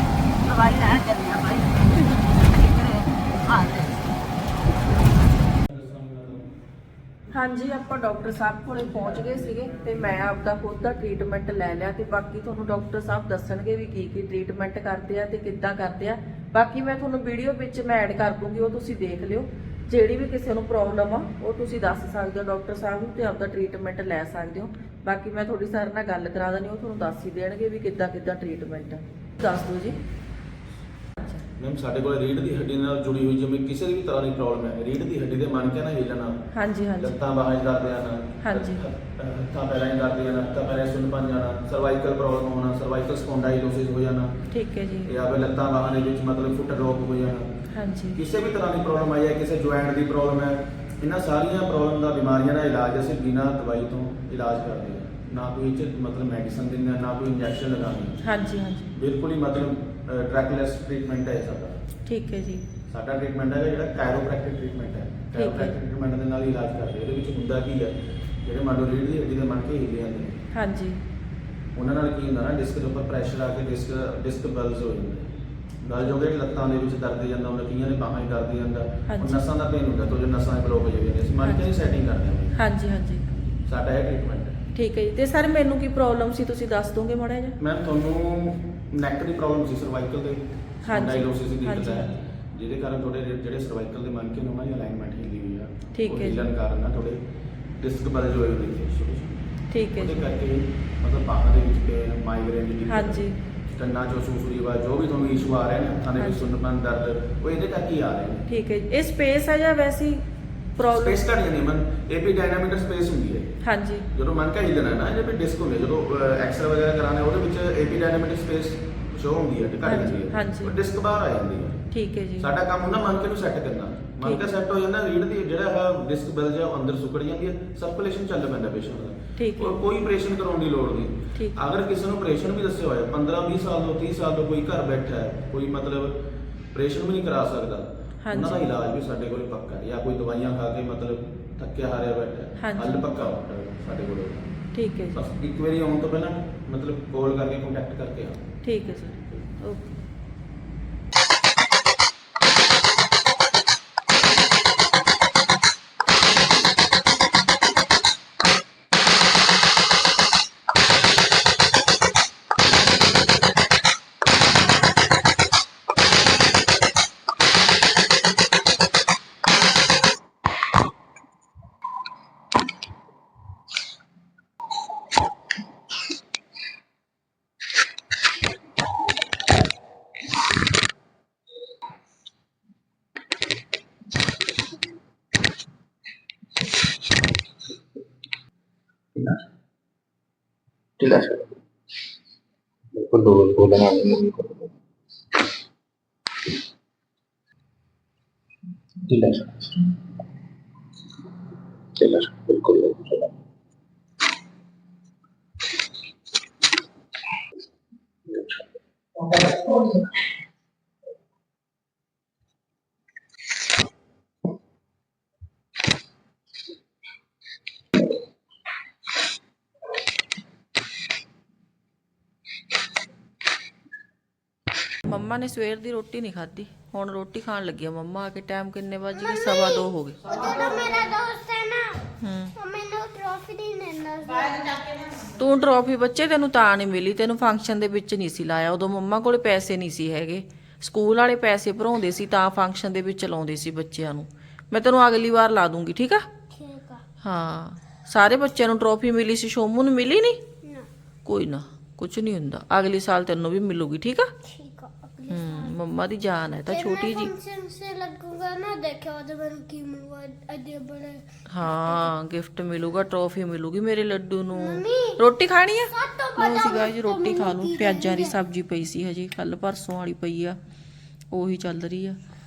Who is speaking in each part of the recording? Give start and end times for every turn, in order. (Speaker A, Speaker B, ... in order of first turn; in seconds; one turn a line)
Speaker A: 0.5-4.1
Speaker B: 5.7-6.5
Speaker C: 7.3-30.0
Speaker C: 31.2-31.5
Speaker B: 31.6-36.4
Speaker C: 36.5-37.1
Speaker B: 37.0-44.4
Speaker C: 38.4-38.8
Speaker C: 44.5-45.1
Speaker B: 45.1-47.5
Speaker C: 47.7-48.2
Speaker B: 48.1-58.2
Speaker C: 58.2-58.9
Speaker B: 59.0-61.8
Speaker C: 62.1-62.7
Speaker B: 62.9-70.4
Speaker C: 65.3-65.8
Speaker C: 70.5-71.0
Speaker B: 71.8-82.6
Speaker C: 79.1-79.5
Speaker C: 81.4-81.9
Speaker C: 82.6-83.3
Speaker B: 83.5-84.6
Speaker C: 84.8-87.6
Speaker B: 87.6-97.2
Speaker C: 90.9-92.2
Speaker C: 96.0-96.4
Speaker B: 97.8-99.5
Speaker C: 99.7-100.3
Speaker B: 100.0-108.5
Speaker C: 102.9-103.4
Speaker C: 106.2-106.6
Speaker C: 108.5-110.2
Speaker C: 110.8-111.2
Speaker B: 110.9-113.5
Speaker C: 113.6-114.1
Speaker B: 114.1-121.8
Speaker C: 119.9-120.7
Speaker C: 121.9-122.5
Speaker B: 122.4-136.2
Speaker C: 124.2-124.5
Speaker C: 129.4-129.8
Speaker B: 136.7-144.5
Speaker C: 138.2-138.7
Speaker C: 142.6-143.1
Speaker C: 144.7-145.2
Speaker B: 145.2-148.5
Speaker C: 148.6-150.1
Speaker D: 189.2-189.4
Speaker D: 191.0-191.6
Speaker D: 192.9-194.7
Speaker D: 199.0-200.0
Speaker D: 202.0-203.3
Speaker D: 208.3-208.7
Speaker D: 209.2-210.1
Speaker C: 225.1-230.2
Speaker E: 229.1-232.0
Speaker A: 230.3-231.2
Speaker C: 232.2-232.5
Speaker E: 232.6-234.5
Speaker A: 234.2-235.5
Speaker C: 235.4-246.3
Speaker E: 246.5-247.0
Speaker C: 247.2-250.4
Speaker C: 251.3-254.3
Speaker E: 254.4-255.7
Speaker C: 255.3-257.3
Speaker E: 256.7-262.1
Speaker C: 261.5-270.6
Speaker E: 264.5-265.2
Speaker E: 265.9-268.4
Speaker C: 271.3-272.2